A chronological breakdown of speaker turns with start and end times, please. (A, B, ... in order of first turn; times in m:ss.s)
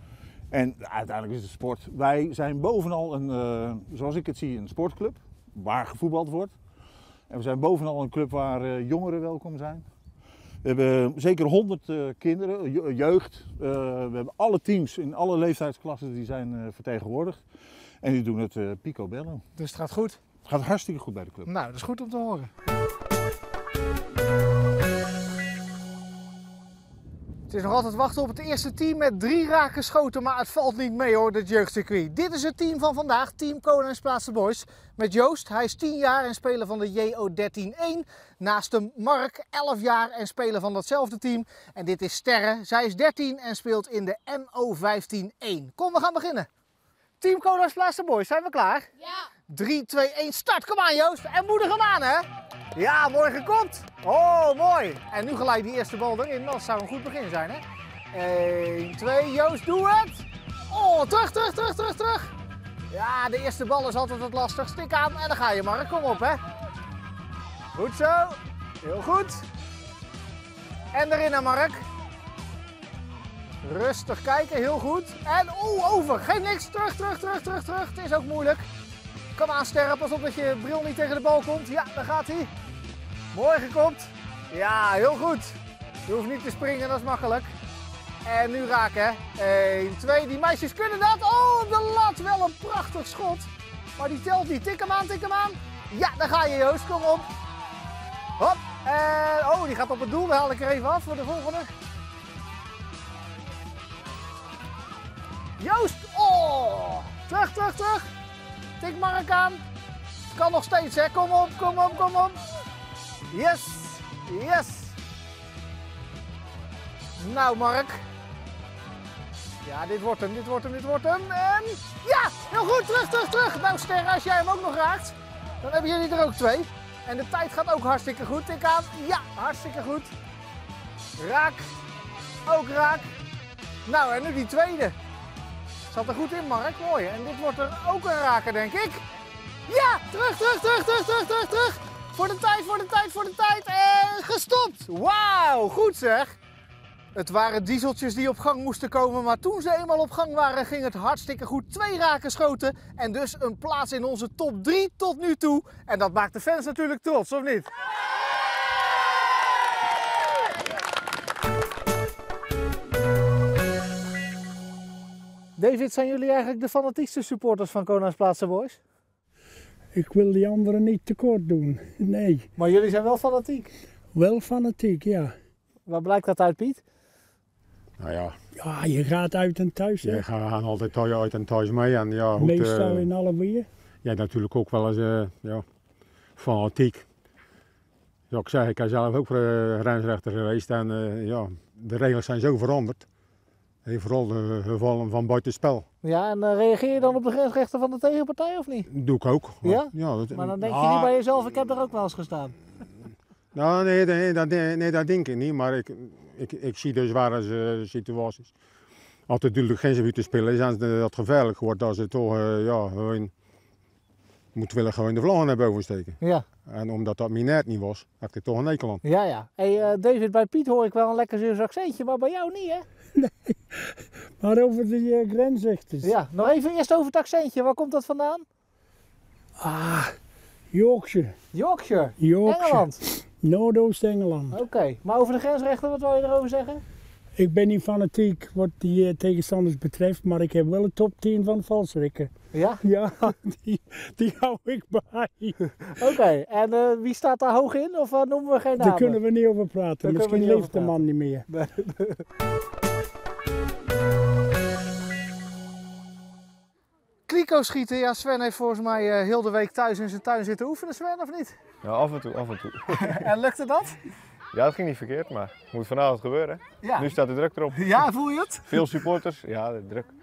0:00.5-0:06.5 A
0:07.3-0:09.8 A
0:10.6-0:17.4 A
0:18.0-0:19.4 A
0:19.6-0:20.2 B
0:20.4-0:21.5 A
0:21.5-0:22.5 B
0:27.5-0:46.5 B
0:47.2-0:48.9 B
0:49.5-1:02.3 B
1:02.9-1:06.4 B
1:07.7-1:09.4 B
1:10.9-1:11.8 B
1:13.6-1:18.6 B
1:19.4-1:22.5 B
1:23.3-1:27.5 B
1:28.2-1:37.3 B
1:38.4-1:41.7 B
1:45.6-1:48.0 B
1:48.8-1:49.6 B
1:50.3-1:52.4 B
1:53.3-1:55.0 B
1:57.2-1:58.0 B
1:59.6-2:10.1 B
2:11.2-2:11.7 B
2:12.4-2:13.1 B
2:13.9-2:15.0 B
2:15.9-2:19.0 B
2:19.7-2:26.4 B
2:27.2-2:37.7 B
2:45.6-2:48.8 B
2:49.9-2:52.5 C
2:52.6-2:53.7 B
2:54.1-2:55.4 C
2:55.9-2:56.8 B
2:58.0-2:58.4 D
2:58.6-3:00.2 C
3:00.0-3:03.1 D
3:02.4-3:03.7 C
3:04.0-3:05.6 D
3:06.4-3:07.1 D
3:08.3-3:13.1 D
3:13.8-3:15.8 D
3:16.0-3:18.9 B
3:18.9-3:21.1 D
3:19.6-3:22.6 B
3:23.5-3:28.5 D
3:29.3-3:33.3 D
3:34.6-3:39.0 D
3:36.2-3:36.4 B
3:39.0-3:42.9 B
3:43.2-3:46.1 C
3:46.0-3:48.5 B
3:49.6-3:50.2 C
3:50.7-3:51.4 C
3:51.5-3:53.0 B
3:52.2-3:54.6 C
3:54.5-3:56.8 B
3:57.4-4:02.3 C
4:02.5-4:02.8 B
4:02.8-4:05.6 C
4:05.8-4:09.2 B
4:08.8-4:11.5 C
4:10.0-4:11.0 B
4:11.5-4:12.2 B
4:17.3-4:21.6 B
4:21.8-4:23.3 E
4:22.9-4:24.0 B
4:24.5-4:28.0 E
4:26.8-4:27.1 B
4:27.7-4:28.9 B
4:28.7-4:30.1 E